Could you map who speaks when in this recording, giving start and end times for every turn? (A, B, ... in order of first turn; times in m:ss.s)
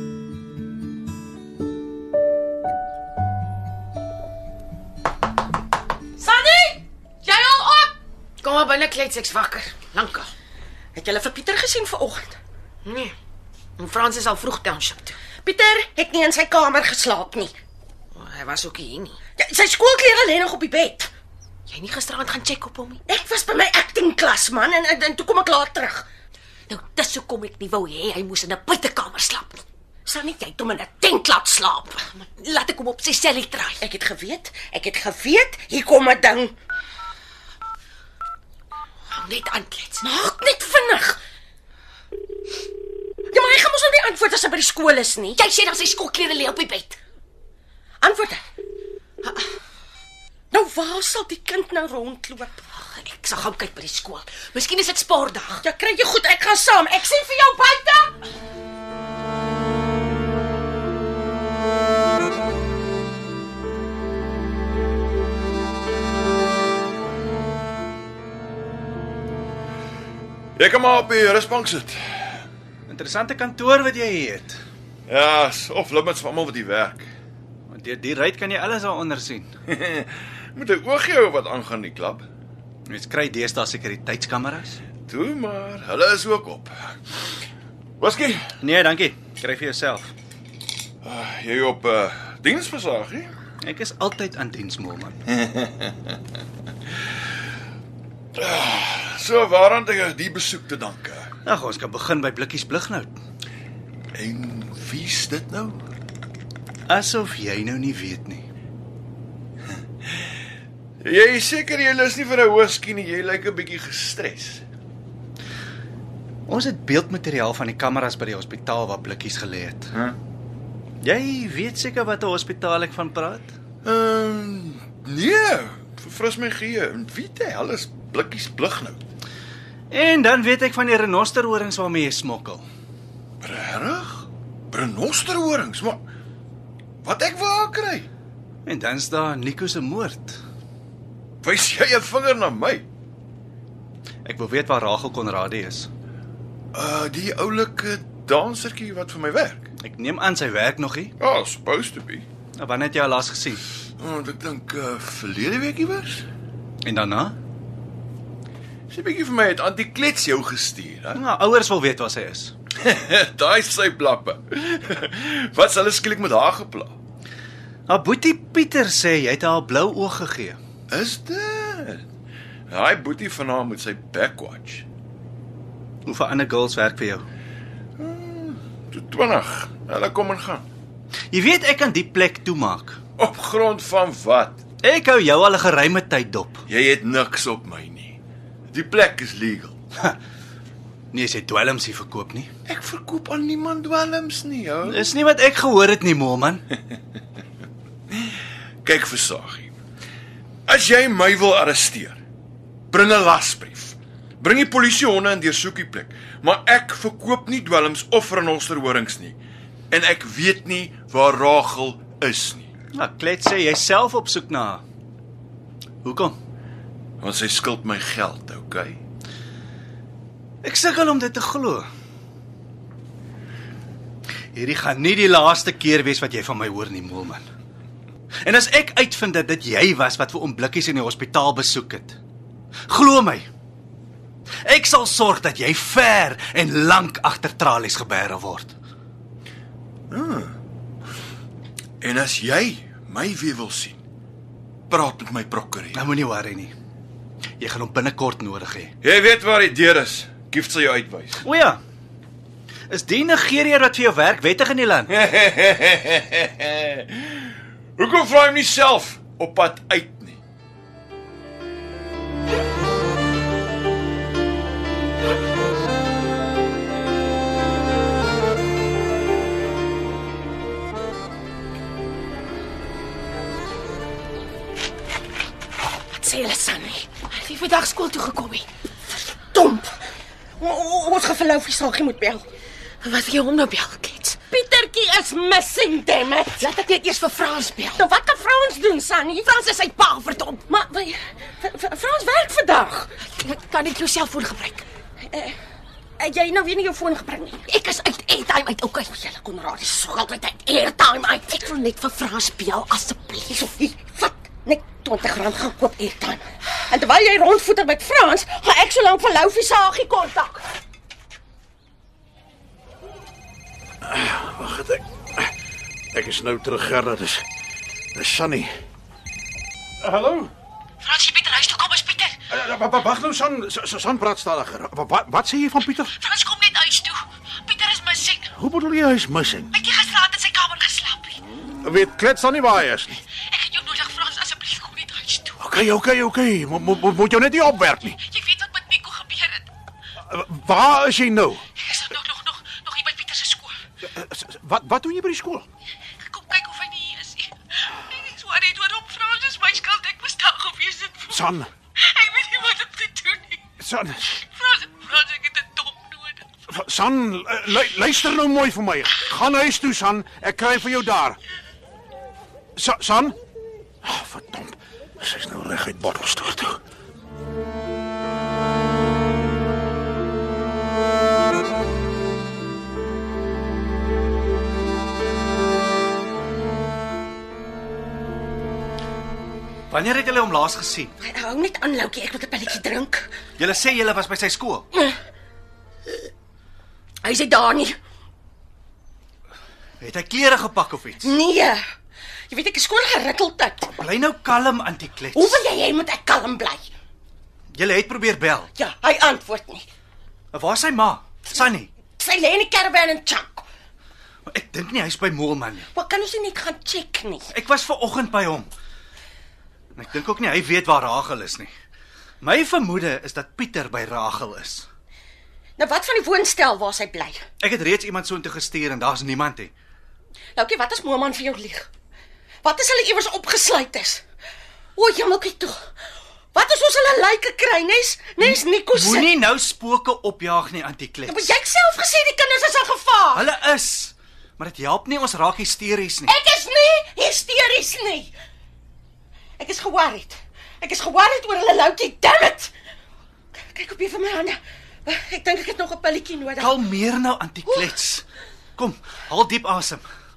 0:06.2-0:06.8 A
0:07.2-0:10.3 B
0:11.0-0:12.4 A
0:12.8-0:13.1 B
0:13.8-0:15.2 B
0:15.4-0:17.5 A
0:18.2-0:19.2 B
0:19.4-0:21.1 A
0:21.7-0:23.0 B
0:23.1-0:26.1 A
0:26.7-0:29.6 B
0:30.1-0:32.0 A
0:32.1-0:33.8 B
0:33.8-0:36.6 A
0:39.1-0:40.1 B
0:40.0-0:41.2 A
0:43.3-0:45.4 A
0:45.4-0:47.0 B
0:48.0-0:48.4 A
0:50.5-0:52.6 A
0:52.8-0:55.6 B
0:55.6-0:58.1 A
1:10.6-1:12.4 C
1:12.9-1:14.6 D
1:15.1-1:17.1 C
1:17.7-1:19.5 D
1:19.7-1:22.3 C
1:22.9-1:24.8 D
1:25.1-1:26.7 C
1:28.0-1:28.5 C
1:28.6-1:30.1 D
1:31.0-1:33.3 C
1:33.6-1:35.2 D
1:35.3-1:36.0 C
1:38.4-1:41.3 C
1:41.4-1:43.2 D
1:44.1-1:45.8 C
1:46.9-1:48.5 D
1:51.0-1:54.6 C
1:56.5-1:59.9 D
2:01.0-2:03.5 D
2:03.8-2:09.0 C
2:09.9-2:12.7 D
2:13.4-2:16.0 C
2:17.0-2:18.1 C
2:18.6-2:20.4 D
2:21.4-2:22.9 C
2:24.2-2:25.9 D
2:26.7-2:29.7 C
2:29.8-2:31.1 D
2:31.2-2:32.3 C
2:32.6-2:33.6 D
2:34.0-2:36.3 C
2:36.8-2:37.4 D
2:38.9-2:41.2 C
2:41.2-2:42.5 D
2:42.8-2:47.0 C
2:47.9-2:50.6 D
2:50.9-2:52.1 C
2:52.7-2:54.9 C
2:56.1-2:57.2 D
2:58.0-3:00.6 C
3:01.3-3:03.0 D
3:03.2-3:04.6 C
3:04.8-3:06.6 D
3:06.7-3:08.2 C
3:08.7-3:09.8 C
3:11.1-3:12.5 D
3:12.7-3:15.1 C
3:14.9-3:16.6 D
3:18.1-3:19.7 C
3:20.7-3:22.2 C
3:22.9-3:29.4 C
3:29.9-3:32.7 C
3:33.0-3:34.8 D
3:36.0-3:36.4 D
3:37.2-3:39.0 C
3:40.6-3:41.9 D
3:44.5-3:47.4 D
3:48.4-3:52.2 D
3:52.9-3:53.5 D
3:54.6-3:58.8 D
4:00.1-4:00.6 C
4:02.0-4:04.0 C
4:04.9-4:06.1 C
4:05.9-4:06.7 D
4:07.6-4:08.9 D
4:09.0-4:11.4 C
4:11.4-4:11.8 D
4:12.9-4:15.1 D
4:15.1-4:20.4 C
4:36.1-4:37.1 A
4:37.3-4:38.7 B
4:39.5-4:39.9 A
4:40.6-4:42.5 A
4:43.0-4:44.4 B
4:44.5-4:46.7 A
4:46.6-4:48.1 B
4:48.0-4:53.1 A
4:53.4-4:54.9 B
4:55.3-4:55.6 A
4:56.2-4:57.7 A
4:57.7-4:59.1 B
4:59.1-5:01.7 A
5:01.5-5:03.5 B
5:03.5-5:10.6 A
5:14.0-5:15.5 E
5:16.1-5:17.4 E
5:18.2-5:18.7 E
5:20.0-5:20.5 E
5:21.0-5:22.4 B
5:22.5-5:26.1 E
5:26.2-5:28.5 B
5:28.5-5:29.7 E
5:29.7-5:31.4 B
5:31.8-5:33.2 E
5:33.5-5:35.6 B
5:35.6-5:38.2 E
5:38.2-5:39.7 B
5:40.3-5:41.6 E
5:41.8-5:43.8 B
5:44.1-5:45.6 E
5:46.2-5:51.5 B
5:51.3-5:51.7 E
5:52.0-5:53.6 B
5:53.8-5:54.4 E
5:54.4-5:56.4 B
5:56.7-6:01.4 E
6:02.8-6:03.4 E
6:04.0-6:06.8 E
6:19.9-6:21.2 D
6:21.2-6:23.3 A
6:23.6-6:24.9 D
6:24.9-6:25.2 A
6:27.2-6:28.0 A
6:30.0-6:31.3 D
6:31.2-6:31.8 A
6:32.5-6:33.9 A
6:34.0-6:35.6 D
6:35.3-6:36.9 A
6:37.7-6:38.7 D
6:38.8-6:39.9 A
6:40.5-6:41.9 D
6:42.2-6:43.7 A
6:44.5-6:45.9 D
6:45.9-6:47.5 A
6:47.5-6:48.7 D
6:50.0-6:51.7 D
6:52.4-6:54.9 D
6:55.8-6:57.4 A
6:57.6-6:59.7 D
7:00.6-7:01.9 A
7:02.6-7:04.2 A
7:05.0-7:05.8 A
7:06.5-7:09.3 A
7:08.4-7:11.5 D
7:11.3-7:13.5 A
7:13.4-7:16.3 D
7:16.3-7:18.3 A
7:19.6-7:22.7 A
7:23.7-7:26.7 A
7:26.6-7:30.1 D